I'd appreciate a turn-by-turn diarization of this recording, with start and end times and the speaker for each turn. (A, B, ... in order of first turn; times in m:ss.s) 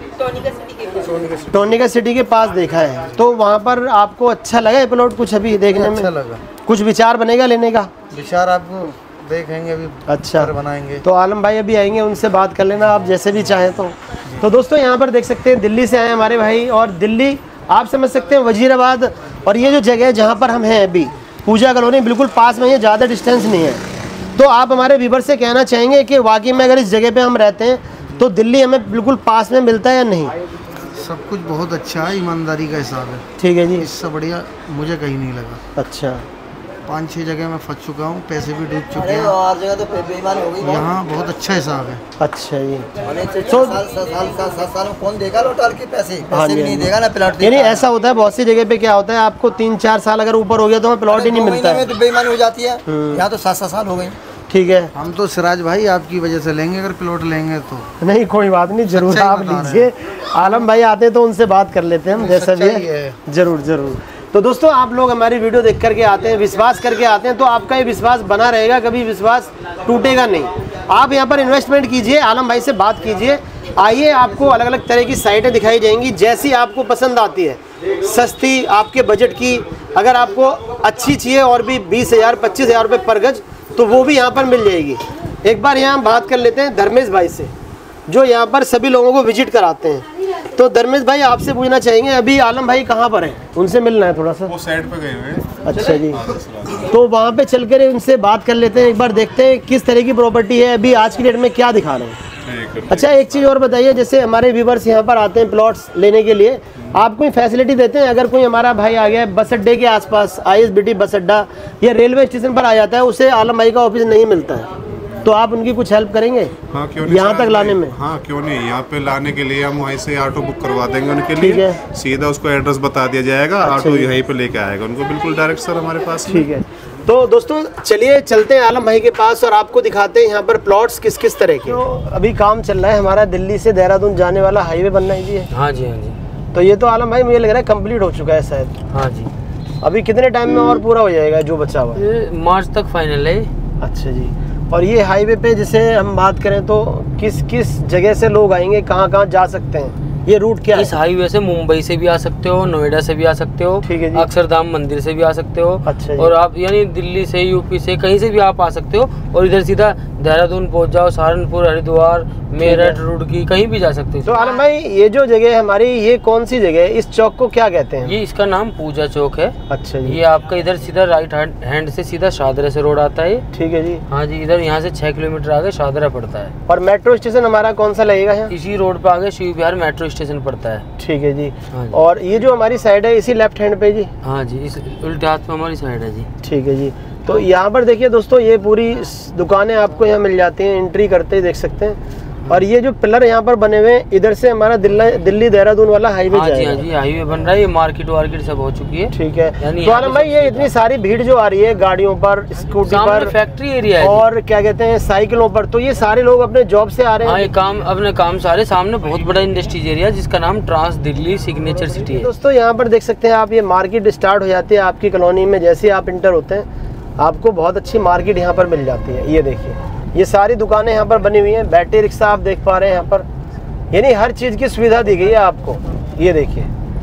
0:00.8-0:01.7 A
0:01.5-0:06.1 B
0:05.7-0:06.4 A
0:06.6-0:07.9 B
0:08.1-0:11.0 A
0:10.1-0:23.8 B
0:24.4-0:30.3 B
0:30.9-0:33.2 A
0:33.4-0:33.9 B
0:33.8-0:35.6 A
0:35.8-0:36.2 B
0:36.8-0:39.4 A
0:38.9-0:40.9 C
0:40.6-0:42.0 A
0:42.2-0:42.9 B
0:43.0-0:47.9 C
0:43.5-0:43.8 B
0:46.3-0:51.9 B
0:51.1-0:54.2 C
0:52.8-0:53.2 B
0:54.5-0:54.9 B
0:54.9-0:57.9 A
0:58.0-1:27.5 B
0:58.9-0:59.9 A
1:02.1-1:03.2 A
1:28.1-1:34.5 B
1:34.5-1:36.9 D
1:35.6-1:36.2 B
1:36.8-1:42.2 B
1:42.4-1:43.5 D
1:42.9-1:54.7 B
1:55.2-1:56.5 B
1:56.7-2:06.4 D
1:57.1-1:58.0 B
2:01.4-2:01.8 B
2:03.6-2:04.1 B
2:06.2-2:15.5 B
2:15.5-2:16.2 E
2:16.5-2:18.8 B
2:18.9-2:19.3 E
2:19.8-2:22.0 B
2:21.9-2:23.5 E
2:23.8-2:30.9 B
2:30.7-2:44.5 E
2:33.8-2:34.2 B
2:35.8-2:36.4 B
2:42.6-2:43.0 B
2:44.2-2:48.1 B
2:48.0-2:53.4 E
2:49.7-2:50.2 B
2:53.5-2:54.0 B
2:54.1-2:56.5 E
2:56.6-2:58.5 B
2:58.5-3:00.8 E
3:01.0-3:04.1 B
3:01.7-3:02.0 E
3:04.2-3:06.3 E
3:06.4-3:16.8 B
3:16.3-3:20.7 E
3:19.1-3:23.3 B
3:22.8-3:24.2 E
3:24.0-3:27.5 B
3:27.2-3:32.3 E
3:32.1-3:36.7 B
3:37.2-3:43.2 B
3:43.9-3:46.7 B